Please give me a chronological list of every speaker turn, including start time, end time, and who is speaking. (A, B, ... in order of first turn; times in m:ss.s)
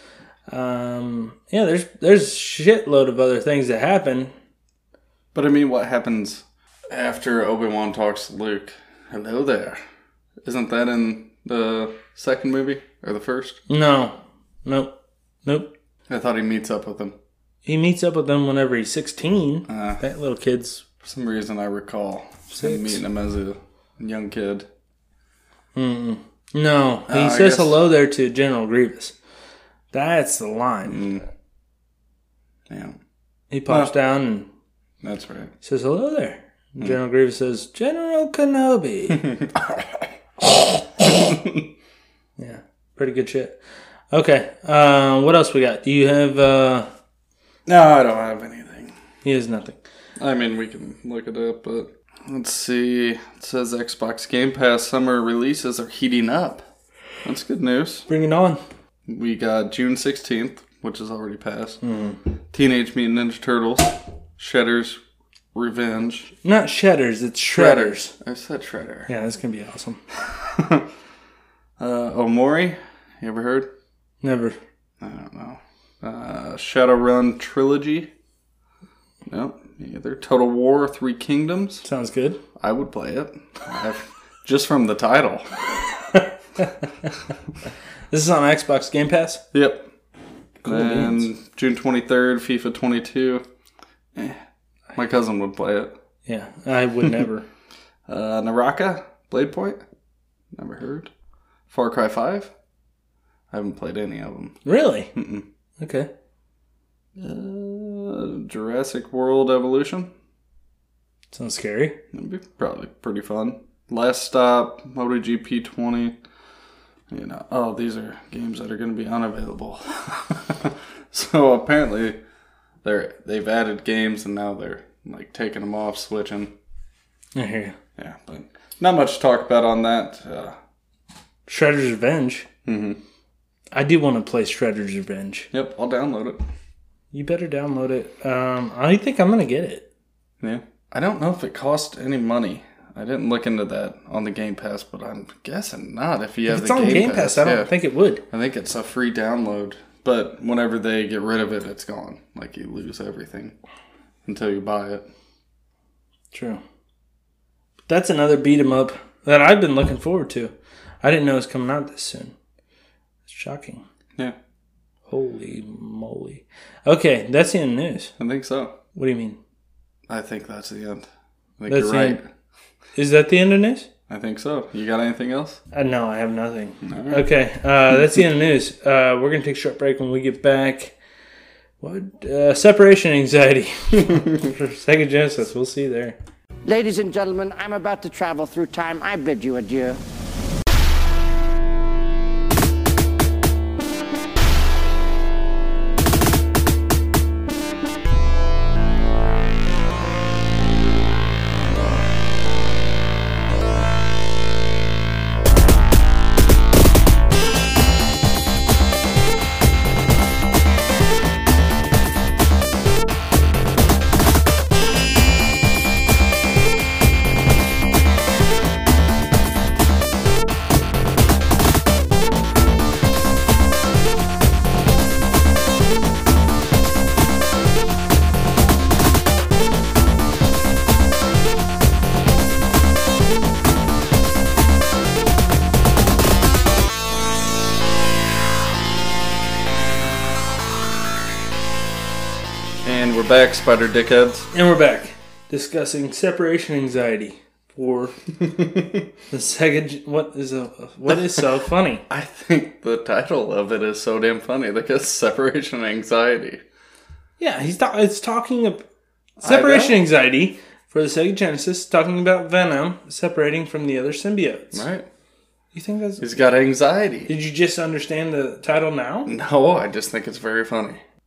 0:00.5-0:04.3 A
0:05.3-0:09.8 B
0:10.4-0:13.6 B
0:13.7-0:14.9 A
0:15.4-0:15.7 A
0:16.1-0:17.2 B
0:17.6-0:20.8 A
0:19.7-0:20.0 B
0:21.0-0:24.7 B
0:22.5-0:23.0 A
0:25.8-0:29.1 A
0:27.1-0:27.8 B
0:29.9-0:31.1 A
0:30.8-0:31.2 B
0:32.7-0:33.0 B
0:33.5-0:34.5 A
0:35.0-0:35.5 B
0:35.6-0:39.3 A
0:39.1-0:41.6 B
0:42.4-0:43.6 A
0:44.1-0:46.9 A
0:47.7-0:48.9 B
0:49.2-0:49.8 A
0:50.2-0:56.6 B
0:57.2-0:58.1 B
0:58.1-0:58.6 A
0:59.1-1:01.8 B
1:01.8-1:02.2 A
1:02.5-1:05.0 B
1:05.5-1:06.3 B
1:06.4-1:08.1 A
1:07.5-1:09.1 B
1:09.1-1:10.0 A
1:10.2-1:10.9 B
1:11.8-1:13.7 B
1:14.2-1:14.6 A
1:15.0-1:18.1 B
1:19.3-1:21.8 B
1:21.8-1:22.4 A
1:22.6-1:25.5 B
1:26.1-1:27.1 A
1:28.1-1:29.4 A
1:29.5-1:29.9 B
1:30.6-1:31.3 A
1:30.6-1:33.4 B
1:34.2-1:34.4 B
1:34.9-1:35.9 B
1:36.3-1:37.5 A
1:38.1-1:39.8 B
1:40.5-1:41.1 B
1:41.7-1:42.5 B
1:43.5-1:44.6 B
1:44.6-1:45.1 A
1:45.2-1:45.4 B
1:45.8-1:46.1 A
1:47.2-1:50.1 B
1:51.3-1:52.0 A
1:52.1-1:56.2 B
1:57.1-2:02.2 B
2:02.8-2:06.5 B
2:07.4-2:07.8 A
2:08.0-2:10.6 B
2:11.5-2:12.5 A
2:12.6-2:13.0 B
2:13.7-2:15.5 A
2:15.5-2:16.4 B
2:17.1-2:19.9 A
2:20.4-2:27.7 B
2:26.5-2:28.2 A
2:28.3-2:33.6 B
2:34.3-2:35.0 B
2:36.3-2:36.6 A
2:37.9-2:42.3 A
2:43.3-2:43.8 A
2:45.1-2:48.1 A
2:48.2-2:48.8 B
2:49.0-2:49.4 A
2:50.1-2:51.1 B
2:51.6-2:52.2 B
2:51.7-2:52.2 A
2:53.0-2:53.9 A
2:54.1-2:55.6 B
2:55.7-3:01.0 A
2:56.8-2:57.3 B
3:01.8-3:06.2 A
3:06.6-3:10.0 C
4:02.8-4:04.5 B
4:04.5-4:08.2 A
4:08.6-4:09.0 B
4:09.3-4:12.0 A
4:12.1-4:16.6 B
4:17.4-4:18.8 A
4:19.4-4:20.0 B
4:19.4-4:24.8 A
4:24.7-4:25.1 B
4:25.7-4:26.2 A
4:26.2-4:27.3 B
4:27.3-4:29.3 A
4:29.3-4:31.0 B